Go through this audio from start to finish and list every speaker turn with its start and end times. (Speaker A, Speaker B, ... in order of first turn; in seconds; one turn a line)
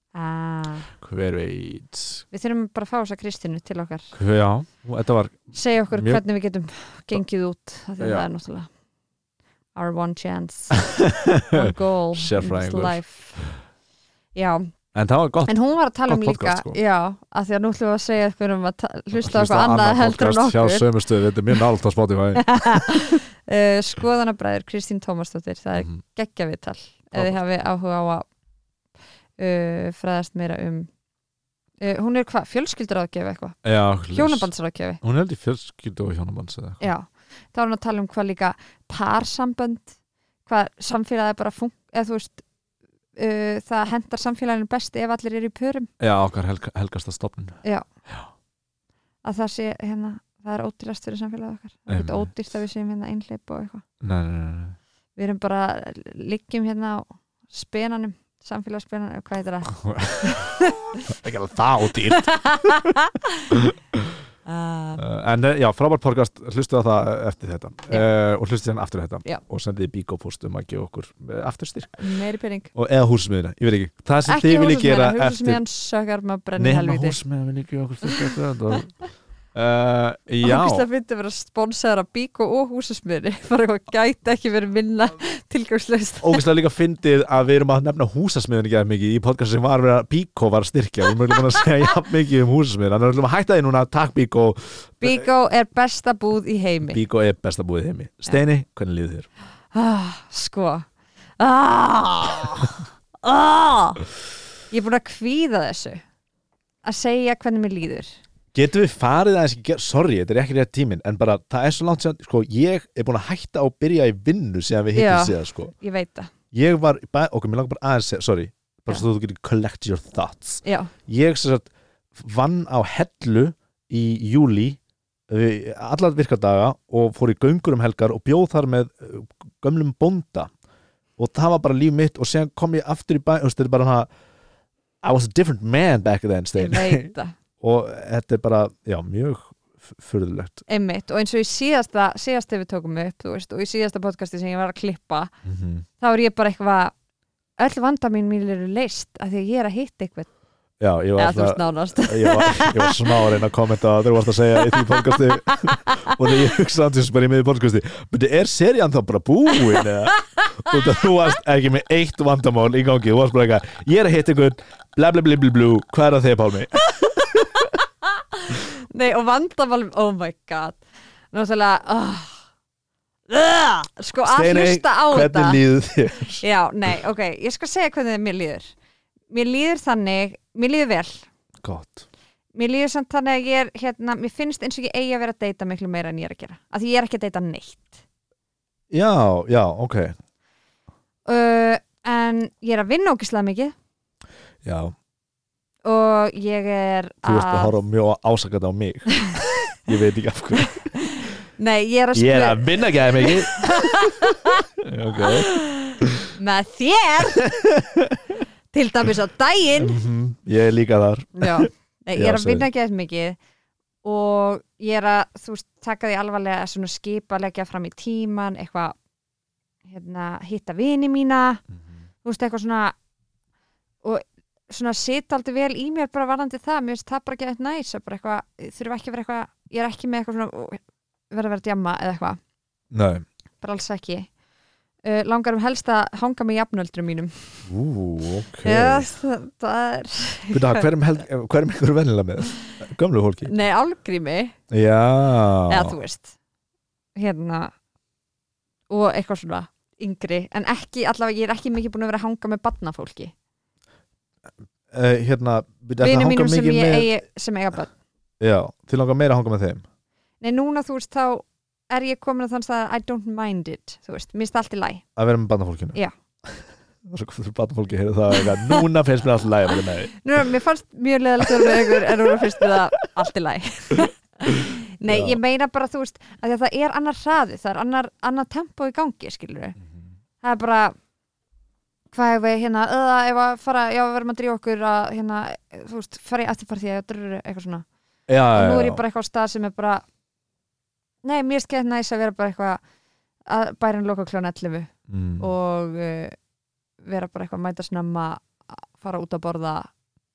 Speaker A: 0.1-0.9
Speaker B: 1.0-2.2
Speaker A: 2.3-4.1
Speaker B: 4.1-6.2
Speaker A: 5.5-8.7
Speaker B: 8.0-8.3
Speaker A: 9.8-10.9
Speaker B: 10.9-13.4
Speaker A: 11.5-13.5
Speaker A: 14.3-14.7
Speaker B: 14.9-15.5
Speaker A: 15.5-20.9
Speaker B: 16.1-16.8
Speaker B: 19.1-23.0
Speaker A: 22.4-28.3
Speaker A: 29.4-30.9
Speaker A: 31.8-33.6
Speaker B: 33.6-34.5
Speaker A: 34.1-35.0
Speaker B: 35.0-36.8
Speaker A: 36.8-40.0
Speaker A: 40.5-42.4
Speaker A: 43.2-45.9
Speaker B: 46.0-48.3
Speaker A: 49.2-53.8
Speaker B: 51.9-52.3
Speaker B: 54.0-54.8
Speaker A: 55.2-61.0
Speaker B: 59.7-60.5
Speaker B: 61.0-62.9
Speaker A: 62.1-63.6
Speaker B: 63.5-64.2
Speaker A: 64.5-65.0
Speaker B: 65.0-72.0
Speaker A: 72.0-72.7
Speaker B: 72.8-75.6
Speaker A: 74.3-77.2
Speaker B: 76.6-79.0
Speaker B: 79.5-80.9
Speaker A: 80.4-86.4
Speaker B: 86.2-95.2
Speaker A: 95.0-97.0
Speaker B: 96.9-99.3
Speaker A: 99.7-100.9
Speaker A: 101.4-104.0
Speaker A: 104.7-106.0
Speaker A: 106.8-108.1
Speaker B: 108.5-115.7
Speaker A: 114.9-116.3
Speaker B: 116.5-124.8
Speaker A: 120.6-120.9
Speaker B: 125.3-130.5
Speaker B: 131.2-134.1
Speaker B: 135.0-140.6
Speaker A: 136.6-137.3
Speaker A: 140.7-145.3
Speaker B: 145.4-145.9
Speaker A: 146.0-146.9
Speaker A: 147.6-150.3
Speaker B: 150.8-167.4
Speaker A: 151.2-153.2
Speaker A: 154.6-156.2
Speaker A: 159.8-160.8
Speaker A: 166.8-170.8
Speaker A: 171.3-172.4
Speaker A: 173.3-175.6
Speaker B: 174.2-176.4
Speaker A: 176.4-178.7
Speaker A: 179.3-181.3
Speaker B: 181.6-182.1
Speaker A: 182.6-188.0
Speaker B: 188.9-190.2
Speaker A: 191.3-193.8
Speaker B: 194.6-194.9
Speaker A: 195.8-197.7
Speaker B: 197.2-200.9
Speaker A: 200.6-204.7
Speaker B: 202.2-204.1
Speaker B: 204.8-206.3
Speaker A: 205.2-207.5
Speaker B: 207.4-208.3
Speaker A: 208.7-210.0
Speaker B: 209.8-212.7
Speaker A: 211.4-213.4
Speaker A: 214.0-218.9
Speaker A: 219.9-221.6
Speaker A: 222.2-223.0
Speaker A: 224.0-232.4
Speaker B: 232.9-233.2
Speaker A: 233.6-234.3
Speaker A: 235.0-237.6
Speaker B: 237.7-239.1
Speaker A: 238.6-240.9
Speaker B: 240.5-243.5
Speaker A: 243.4-244.6
Speaker B: 244.7-245.9
Speaker A: 245.7-246.4
Speaker A: 247.2-247.7
Speaker A: 248.9-253.3
Speaker B: 254.9-257.1
Speaker A: 256.0-257.9
Speaker B: 258.4-259.8
Speaker A: 260.4-265.0
Speaker B: 265.2-270.2
Speaker A: 268.4-268.8
Speaker A: 270.1-279.8
Speaker B: 271.4-272.7
Speaker B: 275.1-275.4
Speaker B: 279.8-280.1
Speaker A: 280.4-280.9
Speaker A: 282.1-287.9
Speaker B: 288.3-289.0
Speaker A: 288.5-290.0
Speaker A: 291.2-292.8
Speaker A: 293.5-296.4
Speaker B: 295.1-295.5
Speaker A: 297.0-299.9